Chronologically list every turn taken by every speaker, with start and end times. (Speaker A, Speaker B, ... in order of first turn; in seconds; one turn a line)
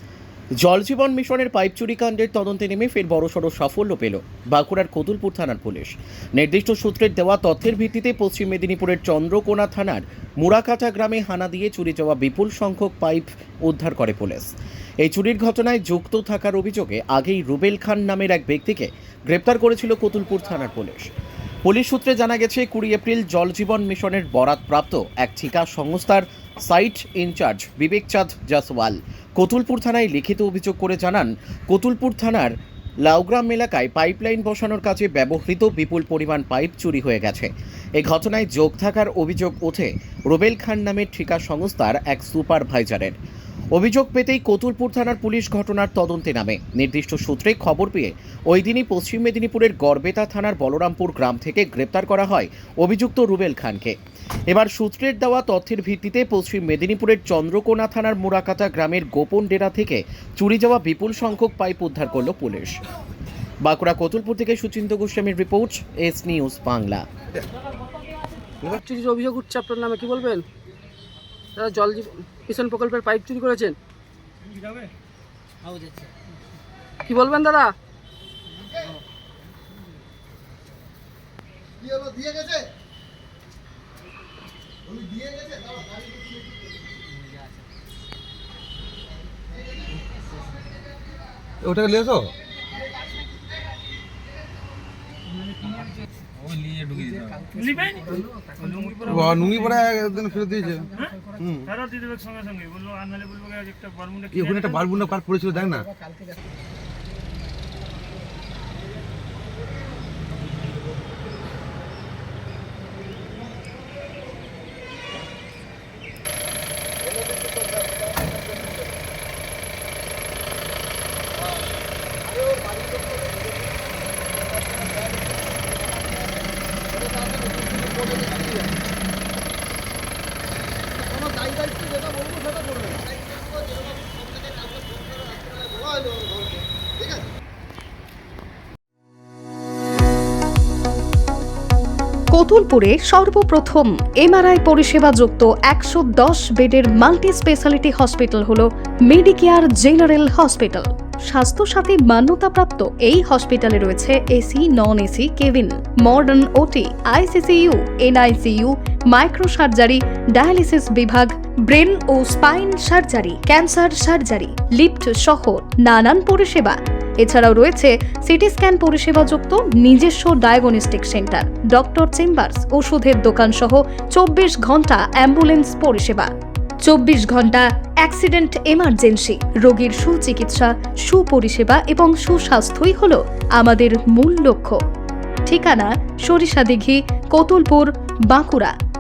Speaker A: 0.6-21.1
Speaker A: 21.6-32.5
Speaker A: 33.0-43.2
Speaker A: 43.7-54.0
Speaker A: 54.5-62.8
Speaker A: 63.6-67.0
Speaker B: 68.7-70.4
Speaker B: 71.5-73.7
Speaker B: 77.0-77.7
Speaker C: 91.6-92.3
Speaker C: 96.4-97.4
Speaker D: 97.5-99.5
Speaker C: 99.0-101.7
Speaker D: 101.8-104.3
Speaker C: 104.3-105.9
Speaker B: 122.5-123.3
Speaker B: 124.8-125.2
Speaker B: 127.0-128.7
Speaker B: 131.2-134.7
Speaker B: 135.5-136.4
Speaker E: 142.3-176.3
Speaker E: 176.8-184.8
Speaker E: 185.5-188.7